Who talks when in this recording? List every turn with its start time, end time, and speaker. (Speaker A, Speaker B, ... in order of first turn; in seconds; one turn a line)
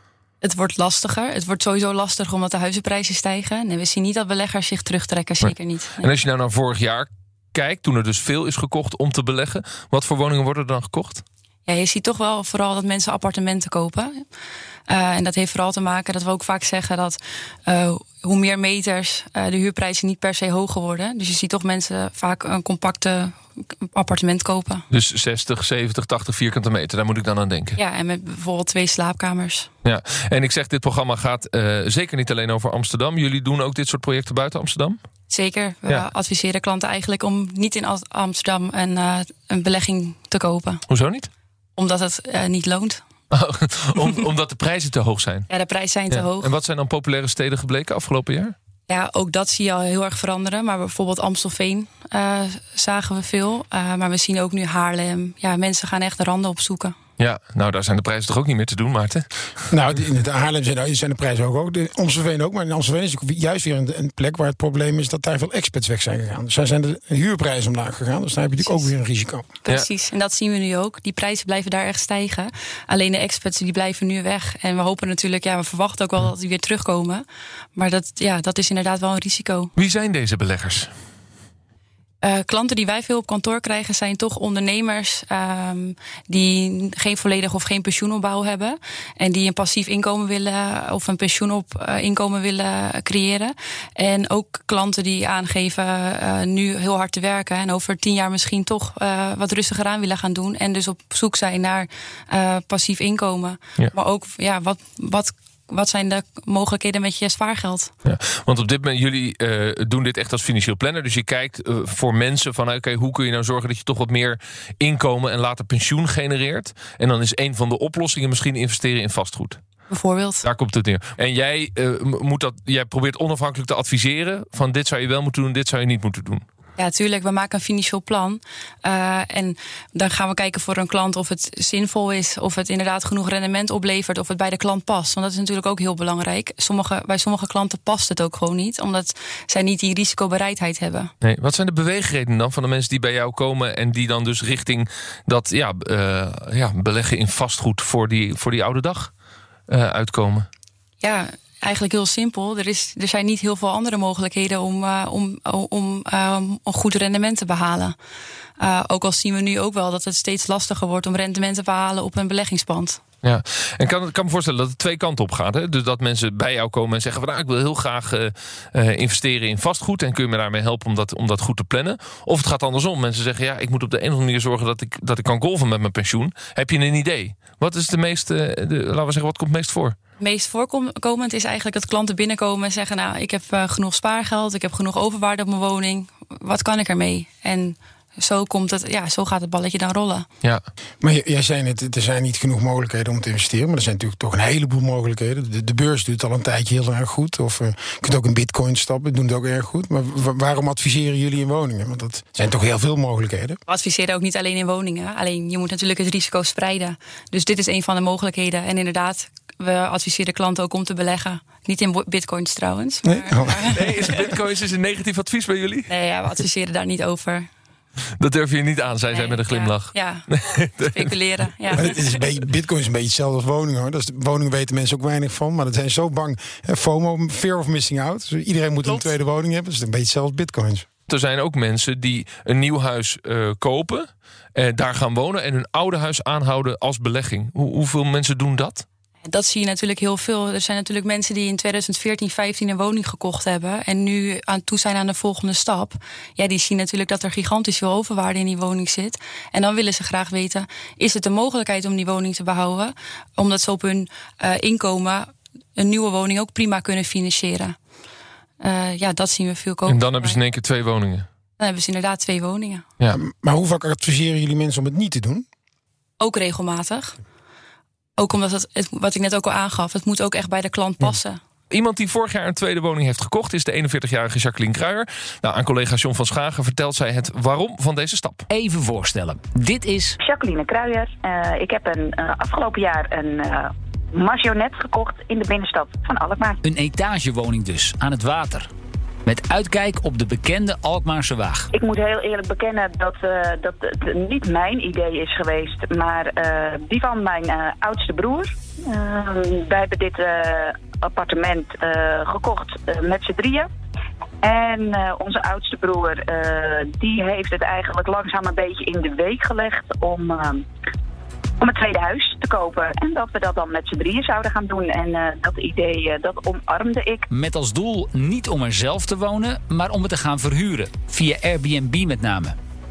Speaker A: 0.4-6.1
Speaker B: 5.4-11.2
Speaker A: 11.7-14.2
Speaker A: 14.9-24.9
Speaker B: 24.9-27.8
Speaker A: 27.8-29.7
Speaker B: 29.9-35.0
Speaker A: 35.3-40.8
Speaker B: 40.9-41.3
Speaker A: 41.8-43.0
Speaker B: 43.3-45.5
Speaker A: 45.5-46.5
Speaker B: 46.1-48.5
Speaker A: 48.9-57.0
Speaker B: 57.2-59.3
Speaker C: 59.7-69.5
Speaker A: 69.6-77.2
Speaker A: 77.8-79.7
Speaker B: 79.8-80.9
Speaker A: 82.2-107.9
Speaker B: 108.0-119.6
Speaker A: 119.9-120.4
Speaker B: 120.4-126.5
Speaker A: 126.8-141.1
Speaker B: 141.2-149.1
Speaker B: 149.7-150.5
Speaker A: 151.0-157.9
Speaker A: 158.6-163.0
Speaker B: 163.2-180.0
Speaker A: 180.2-190.3
Speaker C: 191.0-203.6
Speaker A: 203.7-214.2
Speaker C: 213.0-213.9
Speaker B: 213.7-215.9
Speaker A: 215.9-217.5
Speaker B: 218.2-221.1
Speaker A: 219.1-222.2
Speaker C: 221.7-230.9
Speaker A: 228.8-229.1
Speaker B: 231.1-238.9
Speaker A: 239.3-257.8
Speaker A: 258.6-260.4
Speaker B: 259.9-261.3
Speaker A: 261.6-262.8
Speaker C: 263.1-265.4
Speaker A: 266.2-267.2
Speaker A: 268.2-271.4
Speaker B: 271.7-278.4
Speaker D: 278.5-280.2
Speaker E: 280.2-286.6
Speaker D: 286.6-288.7
Speaker D: 289.3-291.7
Speaker E: 291.7-303.7
Speaker E: 304.4-310.7
Speaker E: 311.6-317.3
Speaker D: 317.3-322.6